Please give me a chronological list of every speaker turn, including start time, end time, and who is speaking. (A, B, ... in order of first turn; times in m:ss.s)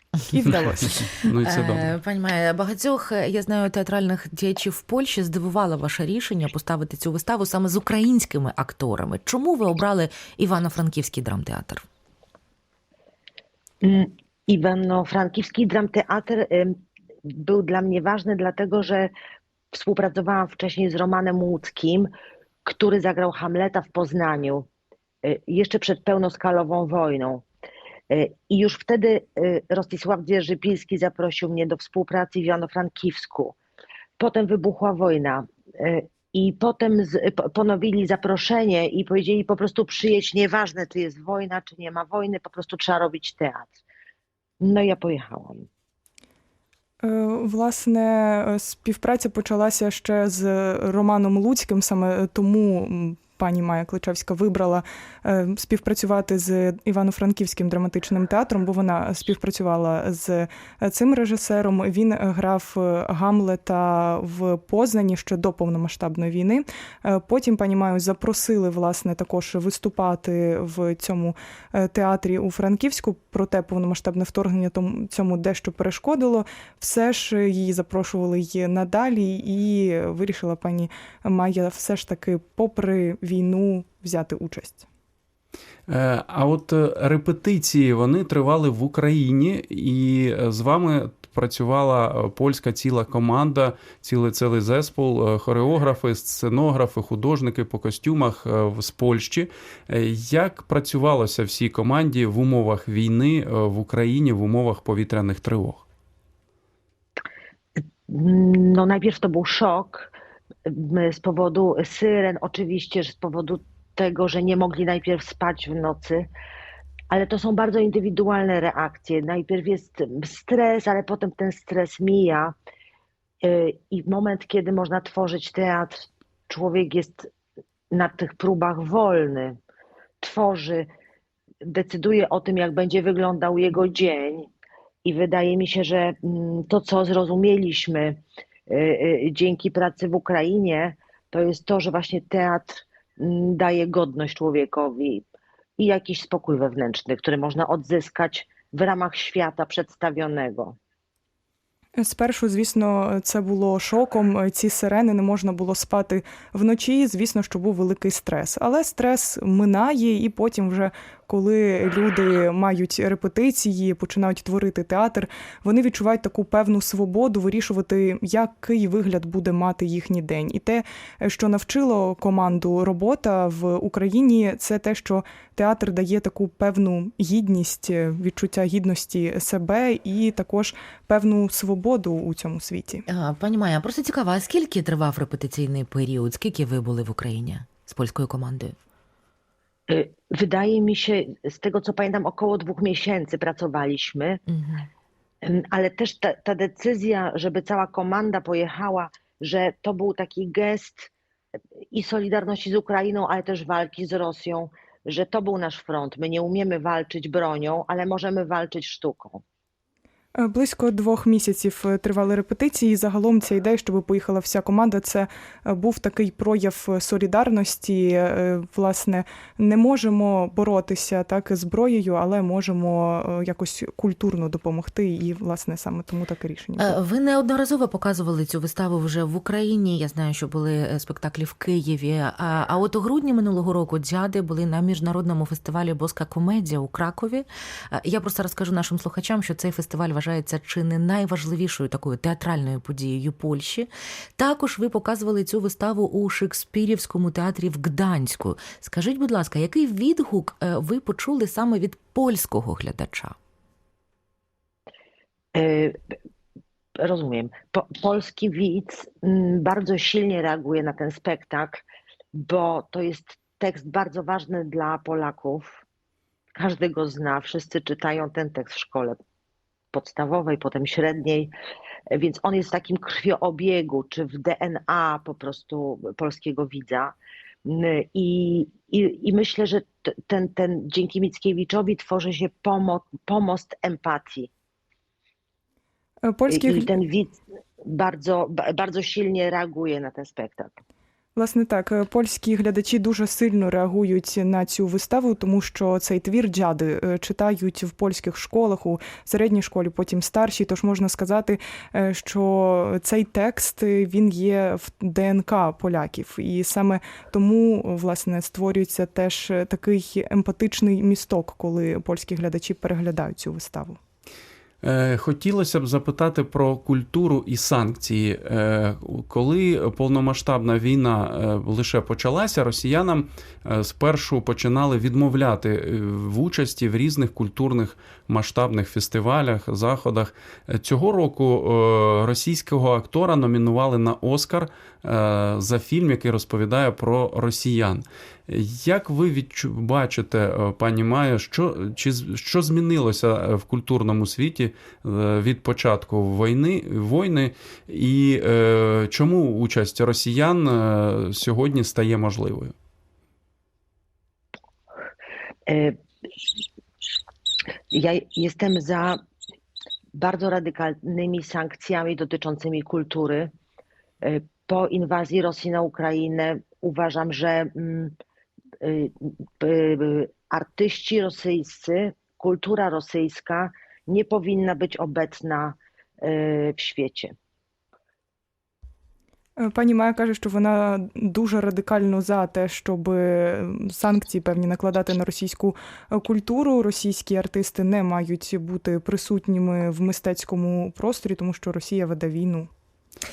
0:00.3-0:00.8 A
0:00.6-0:01.8 B
0:01.4-0:11.8 C
0:13.8-0:19.1 D
0:19.7-0:22.1 D
0:22.6-0:24.7 D
0:25.2-0:27.4 D
0:28.1-0:33.6 D
0:34.2-0:43.8 D
0:44.6-0:45.7 D
0:47.0-1:24.8 A
1:25.9-1:45.8 B
1:47.8-1:50.1 D
1:50.7-1:56.3 D
1:57.1-2:02.6 D
2:03.4-2:07.3 D
2:07.9-2:09.6 D
2:10.2-2:10.9 D
2:11.6-2:14.5 D
2:15.0-2:25.2 D
2:25.8-2:30.8 D
2:32.0-3:03.0 A
3:03.1-3:08.8 C
3:09.9-3:14.4 D
3:14.5-3:14.9 C
3:15.4-3:21.1 D
3:21.9-3:29.4 D
3:30.4-3:46.9 A
3:46.8-4:13.4 C
4:15.6-4:16.0 D
4:17.0-4:21.8 D
4:22.3-4:25.8 D
4:26.6-4:29.2 D
4:29.9-4:31.5 D
4:32.1-4:37.1 D
4:37.6-4:44.5 D
4:46.3-4:46.9 A
4:46.5-4:50.8 D
4:51.4-5:14.0 A
5:14.8-5:52.7 B
5:55.7-5:56.0 D
5:57.9-5:59.2 D
6:00.1-6:03.5 D
6:04.2-6:08.1 D
6:08.8-6:17.4 D
6:19.6-6:32.7 A